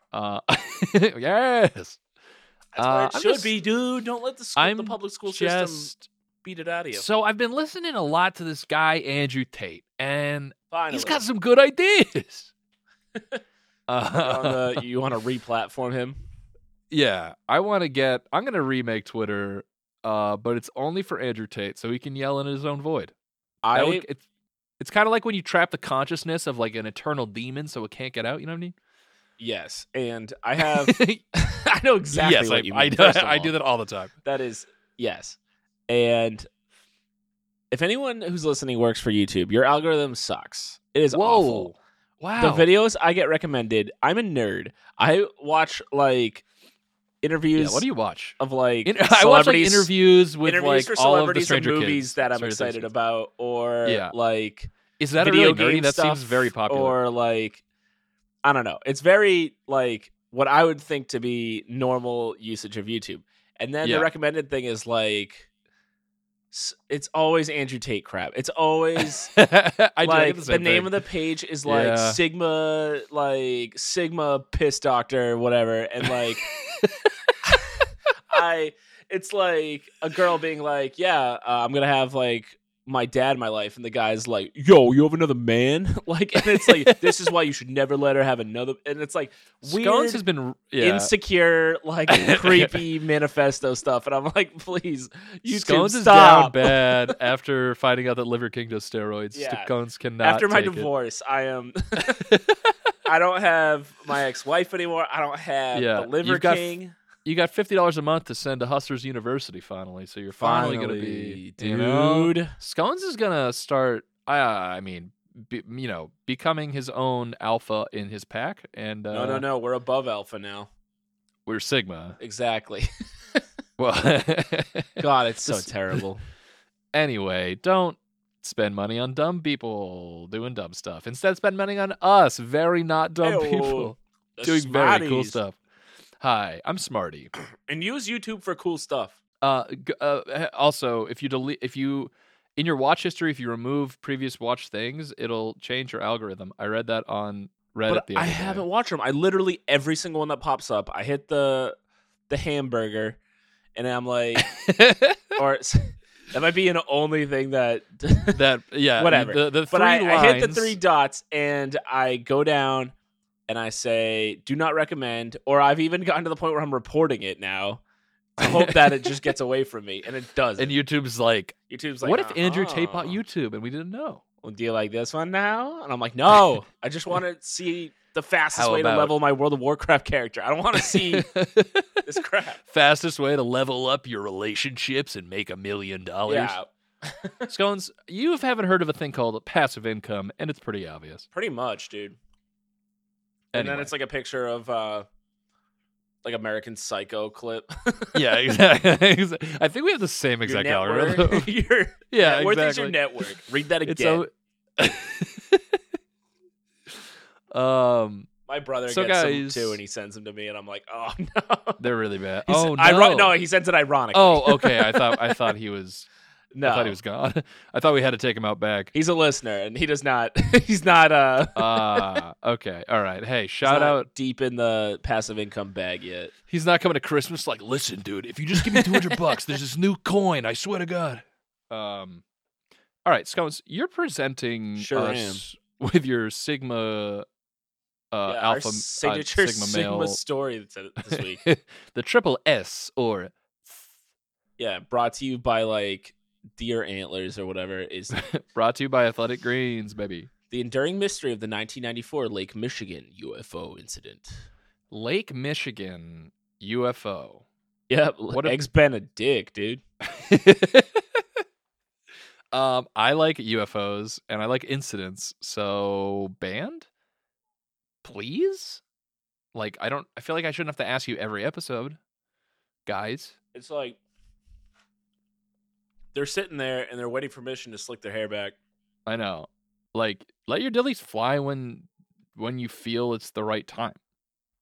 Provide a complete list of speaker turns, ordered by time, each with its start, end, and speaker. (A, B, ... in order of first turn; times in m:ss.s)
0:00.1-0:02.0 A
0:02.8-0:05.9 B
0:02.8-0:03.5 A
0:04.6-0:06.1 A
0:06.4-0:07.1 B
0:06.9-0:12.5 A
0:10.7-0:11.2 B
0:13.9-0:14.8 A
0:14.2-0:16.2 B
0:16.9-0:23.1 A
0:23.6-0:24.0 B
0:23.7-0:24.2 A
0:24.8-0:28.8 A
0:29.4-0:33.6 B
0:30.6-0:31.2 A
0:32.1-0:34.1 A
0:34.2-0:35.4 B
0:35.9-0:36.5 B
0:37.7-0:41.7 B
0:41.1-0:42.7 A
0:42.4-0:46.4 B
0:47.2-0:47.9 B
0:47.6-0:52.9 A
0:48.4-0:49.9 B
0:50.4-0:57.6 B
0:53.8-0:54.1 A
0:55.0-0:57.0 A
0:58.4-1:05.5 B
1:03.8-1:04.1 A
1:06.5-1:09.3 B
1:09.0-1:11.0 A
1:10.0-1:16.4 B
1:11.6-1:12.2 A
1:16.6-1:17.3 A
1:17.4-1:30.2 B
1:26.6-1:27.1 A
1:29.6-1:31.1 A
1:30.8-1:37.2 B
1:32.1-1:32.8 A
1:35.5-1:40.9 A
1:39.3-1:42.2 B
1:42.0-1:42.9 A
1:43.0-1:47.0 B
1:45.7-1:46.7 A
1:47.2-1:59.4 A
1:50.4-1:52.5 B
1:59.1-2:00.7 B
2:01.5-2:02.2 A
2:02.2-2:03.4 B
2:03.8-2:06.0 A
2:05.0-2:06.2 B
2:06.9-2:15.6 A
2:13.2-2:15.4 B
2:16.2-2:17.3 A
2:17.7-2:19.2 B
2:19.4-2:28.6 A
2:27.9-2:31.8 B
2:32.3-2:33.2 B
2:33.8-2:34.5 B
2:34.4-2:35.4 A
2:35.4-2:38.4 B
2:38.3-2:40.8 A
2:39.0-2:42.9 B
2:43.5-2:47.8 B
2:48.4-2:50.8 B
2:48.4-2:49.3 A
2:50.6-2:54.2 A
2:51.7-2:53.2 B
2:54.4-3:01.3 B
2:58.5-2:59.1 A
3:00.8-3:02.1 A
3:02.0-3:02.6 B
3:02.7-3:06.6 A
3:06.3-3:07.5 B
3:07.5-3:11.3 A
3:11.3-3:12.2 B
3:13.5-3:13.9 A
3:13.5-3:15.1 B
3:16.2-3:18.2 B
3:18.1-3:21.5 A
3:20.4-3:24.3 B
3:22.1-3:25.8 A
3:26.9-3:28.3 A
3:28.5-3:31.8 B
3:28.9-3:29.8 A
3:31.8-3:33.3 A
3:32.5-3:35.5 B
3:34.1-3:36.1 A
3:36.5-3:37.0 B
3:36.6-3:38.9 A
3:38.9-3:42.2 B
3:41.6-3:44.1 A
3:43.6-3:46.3 B
3:46.5-3:52.2 A
3:48.6-3:49.2 B
3:53.0-3:57.3 A
3:54.8-3:55.4 B
3:58.1-4:00.2 A
3:58.3-4:01.4 B
4:01.1-4:03.9 A
4:04.6-4:08.2 B
4:08.1-4:10.3 A
4:10.5-4:14.5 B
4:14.9-4:17.4 A
4:17.9-4:19.8 B
4:18.3-4:18.6 A
4:20.0-4:21.4 A
4:22.5-4:26.9 A
4:28.0-4:28.8 A
4:29.5-4:32.0 A
4:32.9-4:33.4 A
4:33.5-4:34.0 B
4:36.1-4:38.6 B
4:39.1-4:44.0 A